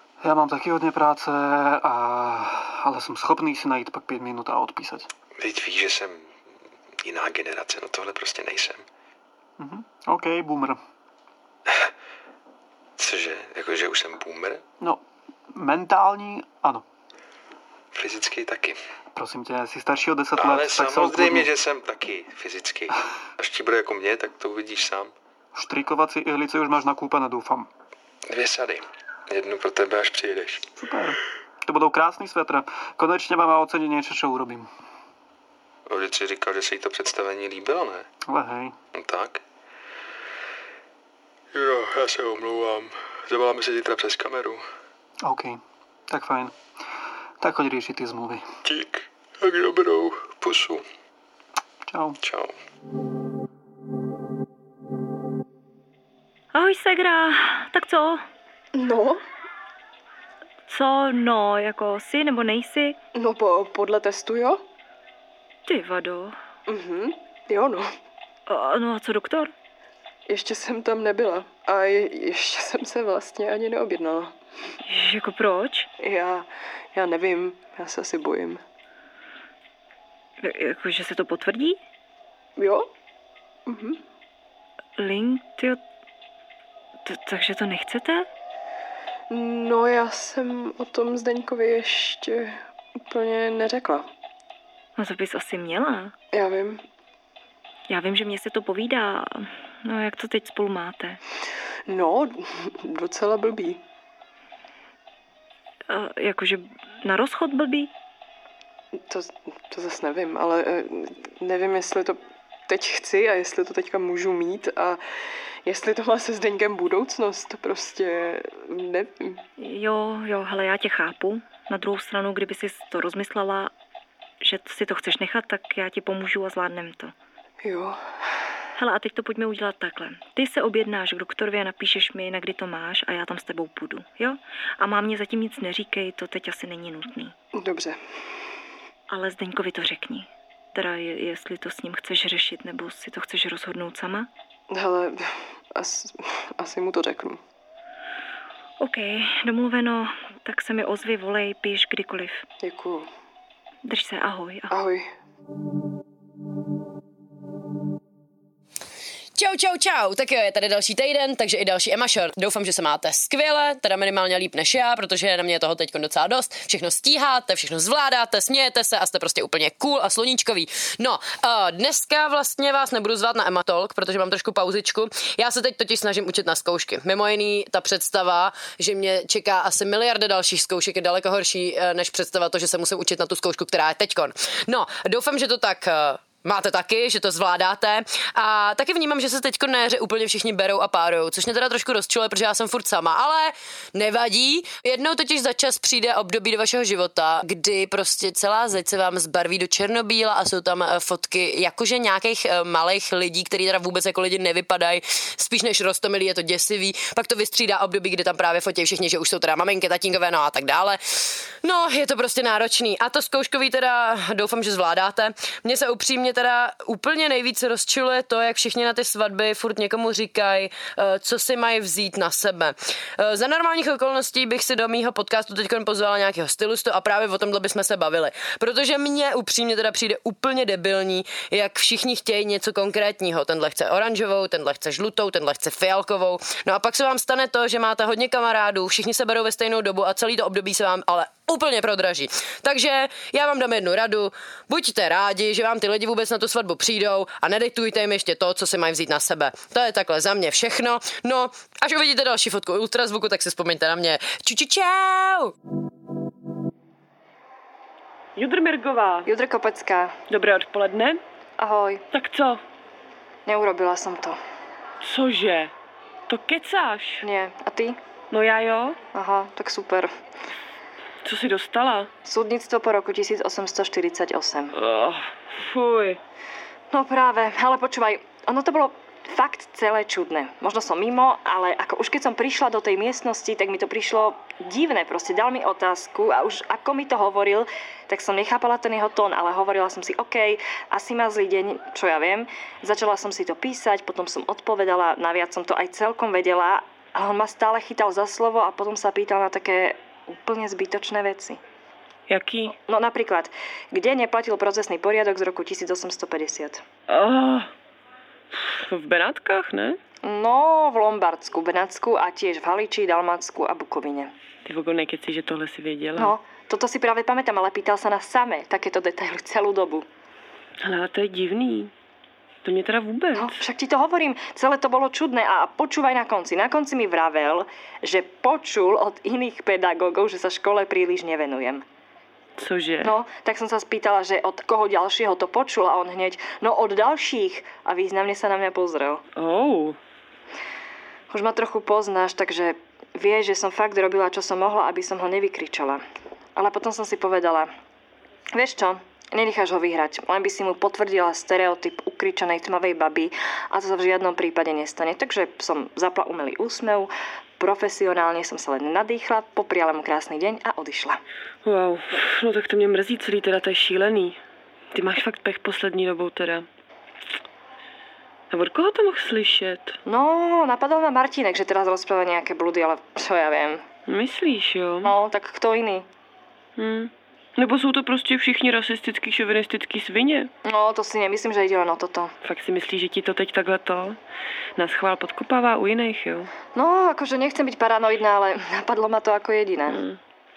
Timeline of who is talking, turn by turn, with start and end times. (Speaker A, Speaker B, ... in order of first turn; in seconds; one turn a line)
Speaker A: 0.2-5.1
Speaker B: 5.4-6.3
Speaker B: 7.0-8.8
Speaker A: 9.6-10.8
Speaker B: 13.0-14.6
Speaker A: 15.5-16.8
Speaker B: 17.9-18.8
Speaker A: 19.1-21.5
Speaker B: 20.4-25.1
Speaker A: 25.5-27.7
Speaker B: 28.3-30.7
Speaker A: 30.8-34.7
Speaker B: 35.9-38.1
Speaker A: 38.3-38.8
Speaker B: 38.9-39.4
Speaker B: 41.5-44.6
Speaker A: 45.2-46.5
Speaker A: 47.4-48.5
Speaker B: 48.6-50.8
Speaker A: 51.9-52.2
Speaker B: 52.2-52.5
Speaker C: 56.5-58.2
Speaker D: 58.7-59.2
Speaker C: 60.7-63.0
Speaker D: 63.1-64.6
Speaker C: 65.7-66.4
Speaker D: 66.7-67.9
Speaker C: 68.5-69.5
Speaker D: 70.3-74.3
Speaker C: 74.8-75.9
Speaker D: 76.0-78.6
Speaker C: 80.4-81.8
Speaker D: 82.6-82.9
Speaker D: 83.7-84.0
Speaker C: 85.0-85.8
Speaker C: 87.0-88.3
Speaker D: 89.3-94.1
Speaker C: 95.0-96.1
Speaker D: 96.3-96.8
Speaker C: 97.9-101.2
Speaker D: 101.9-103.8
Speaker C: 105.9-107.9
Speaker D: 109.0-115.0
Speaker D: 115.7-119.4
Speaker C: 119.6-123.7
Speaker C: 124.4-127.1
Speaker D: 127.6-128.0
Speaker C: 128.8-137.3
Speaker D: 137.5-138.0
Speaker C: 139.1-144.3
Speaker D: 144.7-147.4
Speaker C: 148.8-152.4
Speaker D: 152.6-153.1
Speaker C: 153.8-154.7
Speaker D: 154.7-155.1
Speaker E: 159.4-210.9
Speaker E: 211.7-222.7
Speaker E: 223.2-255.3
Speaker F: 258.4-259.3
Speaker G: 259.3-260.1
Speaker F: 260.3-261.2
Speaker G: 261.6-262.0
Speaker F: 262.1-262.6
Speaker G: 263.5-264.4
Speaker F: 265.0-265.7
Speaker F: 266.3-267.3
Speaker G: 267.2-268.0
Speaker F: 268.3-269.0
Speaker G: 269.1-270.1
Speaker F: 271.2-272.1
Speaker G: 272.2-274.7
Speaker F: 274.7-276.2
Speaker G: 276.9-301.6
Speaker F: 302.3-302.8
Speaker G: 302.9-306.8
Speaker F: 307.1-307.7
Speaker F: 308.5-310.0
Speaker G: 310.2-314.3
Speaker F: 314.6-316.4
Speaker G: 316.2-320.1
Speaker F: 320.8-321.9
Speaker F: 322.6-323.6
Speaker G: 323.3-331.8
Speaker F: 332.6-333.1
Speaker G: 333.0-339.2
Speaker F: 339.4-340.0
Speaker G: 341.3-346.0
Speaker G: 346.6-347.7
Speaker G: 348.5-361.2
Speaker F: 361.6-364.4
Speaker F: 364.9-366.7
Speaker F: 368.5-370.0
Speaker G: 370.1-373.8
Speaker F: 374.1-375.1
Speaker G: 375.0-376.1
Speaker F: 376.8-380.5
Speaker G: 380.6-382.3
Speaker F: 382.4-384.2
Speaker F: 384.8-386.5
Speaker G: 386.8-390.0
Speaker F: 389.9-390.2